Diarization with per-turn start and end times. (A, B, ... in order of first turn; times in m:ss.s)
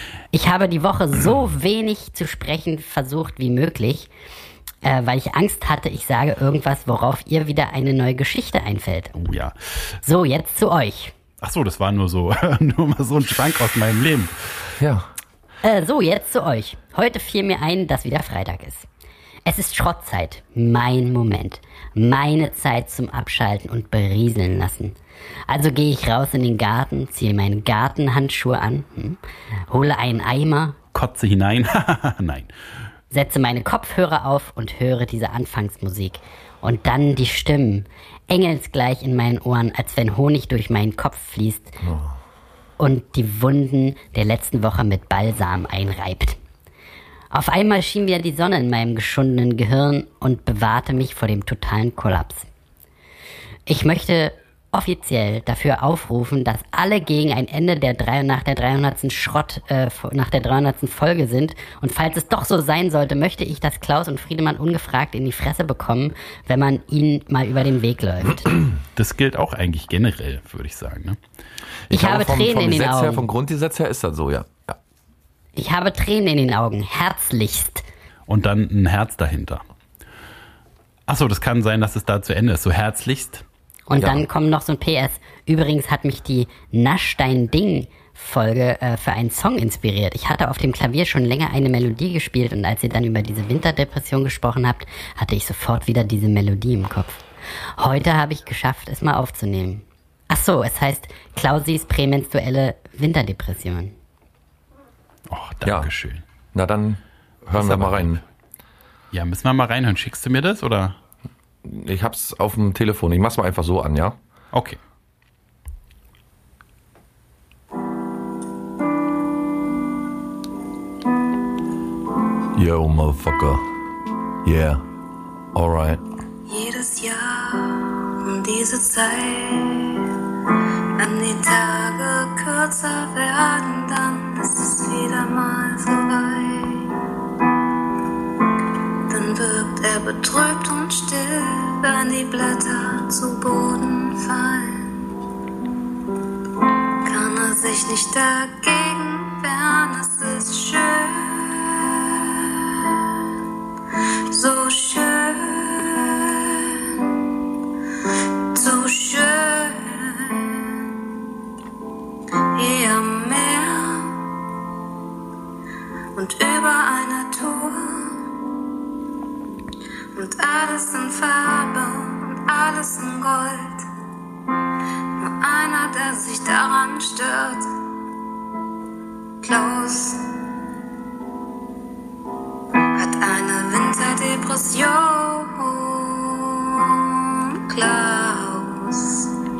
0:00.3-0:04.1 A
0:04.8-0:09.1 A
0:09.1-0:09.5 B
0:10.0-0:11.1 A
0:11.4-0:14.3 B
0:14.8-0:15.1 C
0:15.6-0:18.9 A
0:19.4-0:25.0 A
0:25.5-0:30.8 A
0:30.9-0:32.5 B
0:33.1-0:41.8 A
0:42.8-0:46.4 A
0:47.3-0:52.5 A
0:53.7-1:08.5 A
1:09.0-1:11.2 B
1:11.9-1:14.8 C
1:11.9-1:13.2 A
1:15.6-1:17.8 A
1:18.3-1:19.6 B
1:21.1-1:23.4 B
1:23.9-1:37.2 A
1:23.9-1:24.2 C
1:37.8-1:43.9 A
1:45.3-1:46.2 B
1:45.6-1:45.9 C
1:46.5-1:48.2 C
1:47.5-1:48.2 B
1:49.1-1:51.0 B
1:51.6-1:54.2 C
1:54.5-1:54.8 B
2:02.5-2:03.7 C
2:04.4-2:04.8 C
2:05.5-2:06.0 C
2:06.5-2:16.9 D
2:19.1-2:25.0 D
2:27.0-2:33.2 D
2:34.3-2:37.2 D
2:38.5-2:40.8 D
2:42.5-2:44.2 D
2:46.1-2:48.2 D
2:50.1-2:53.8 D
2:55.2-2:57.7 D
2:59.4-3:00.2 D
3:02.9-3:09.3 D